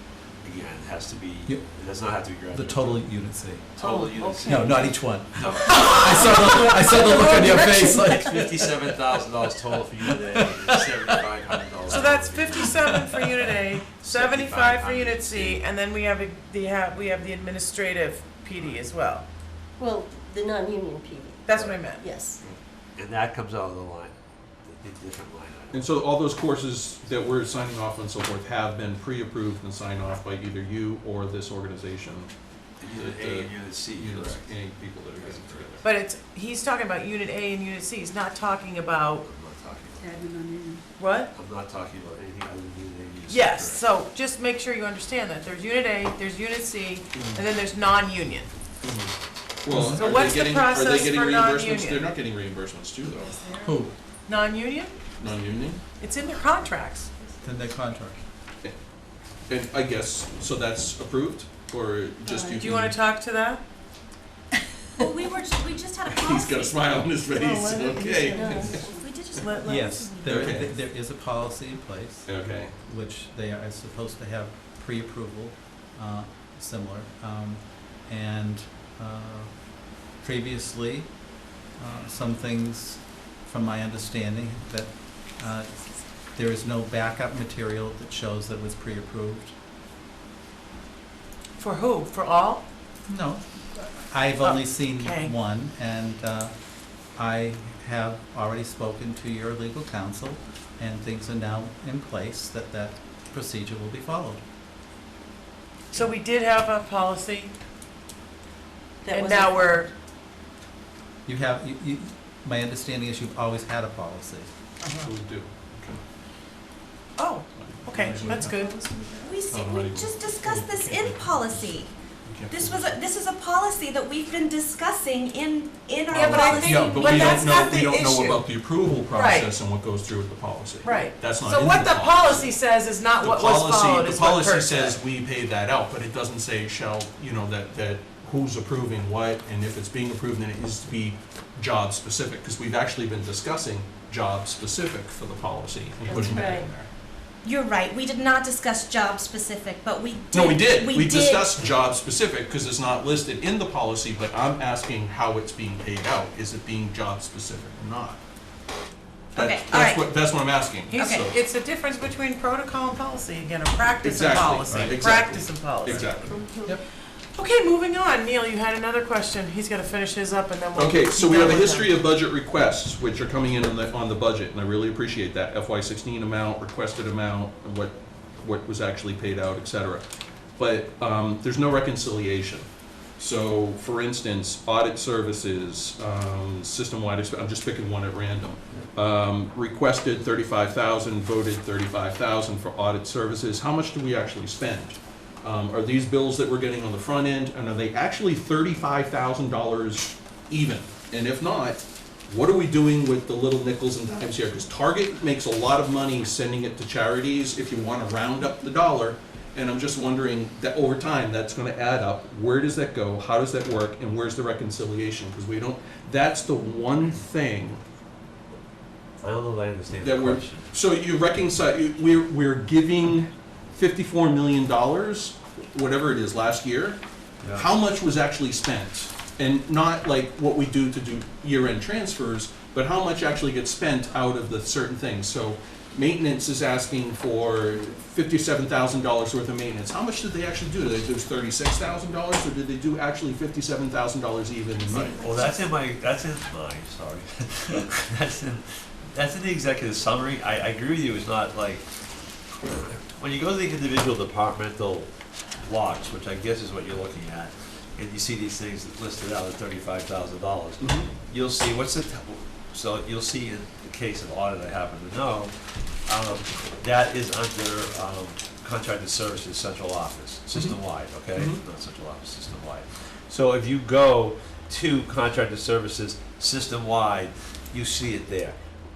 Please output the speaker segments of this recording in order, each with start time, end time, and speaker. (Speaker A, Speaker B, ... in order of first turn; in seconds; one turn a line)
Speaker A: 0.4-3.0
Speaker B: 2.5-3.7
Speaker C: 3.8-4.7
Speaker A: 3.8-12.8
Speaker B: 4.4-9.2
Speaker C: 7.0-7.8
Speaker B: 10.0-11.2
Speaker C: 11.9-19.2
Speaker B: 12.7-13.4
Speaker A: 14.0-15.6
Speaker D: 19.8-22.4
Speaker C: 21.4-22.1
Speaker A: 22.9-24.1
Speaker A: 24.6-25.8
Speaker E: 25.7-32.3
Speaker A: 32.8-34.5
Speaker E: 32.8-35.9
Speaker A: 35.1-35.8
Speaker C: 35.8-39.2
Speaker A: 39.2-40.2
Speaker C: 41.0-41.3
Speaker A: 41.3-43.8
Speaker C: 43.3-48.5
Speaker E: 47.1-47.4
Speaker E: 48.8-53.5
Speaker B: 49.7-50.1
Speaker C: 49.9-52.1
Speaker C: 53.2-53.7
Speaker B: 53.6-53.9
Speaker C: 54.2-54.9
Speaker E: 55.2-55.8
Speaker C: 56.0-57.1
Speaker B: 57.4-58.2
Speaker E: 59.5-63.0
Speaker C: 62.4-63.6
Speaker F: 65.0-66.8
Speaker E: 66.1-69.5
Speaker C: 67.3-68.8
Speaker D: 68.0-69.2
Speaker F: 68.9-70.5
Speaker C: 69.4-70.2
Speaker B: 69.6-81.1
Speaker E: 70.2-70.7
Speaker E: 72.2-72.7
Speaker B: 81.7-89.5
Speaker C: 91.6-92.6
Speaker B: 93.1-104.4
Speaker C: 94.4-95.3
Speaker C: 105.9-107.5
Speaker D: 109.0-109.9
Speaker C: 109.1-109.9
Speaker B: 111.2-114.5
Speaker C: 114.8-115.1
Speaker E: 115.0-116.0
Speaker C: 117.2-119.2
Speaker E: 117.5-118.6
Speaker F: 119.2-121.9
Speaker E: 119.5-123.0
Speaker F: 122.5-127.6
Speaker C: 126.1-128.5
Speaker E: 126.1-132.6
Speaker C: 129.1-129.5
Speaker C: 130.8-135.0
Speaker E: 133.2-146.9
Speaker D: 146.1-146.7
Speaker F: 147.4-151.6
Speaker E: 150.3-158.2
Speaker E: 159.3-161.3
Speaker F: 159.3-160.1
Speaker C: 160.9-166.5
Speaker F: 160.9-161.3
Speaker E: 164.0-166.4
Speaker B: 164.7-165.2
Speaker D: 166.2-166.8
Speaker C: 167.3-172.0
Speaker E: 170.7-180.0
Speaker E: 180.6-182.7
Speaker E: 183.2-217.8
Speaker A: 219.2-220.7
Speaker E: 220.0-227.0
Speaker A: 227.4-227.7
Speaker E: 227.5-245.3
Speaker A: 244.9-251.8
Speaker A: 252.7-255.1
Speaker A: 255.6-265.5
Speaker E: 260.8-261.1
Speaker A: 266.1-278.5
Speaker E: 271.3-271.6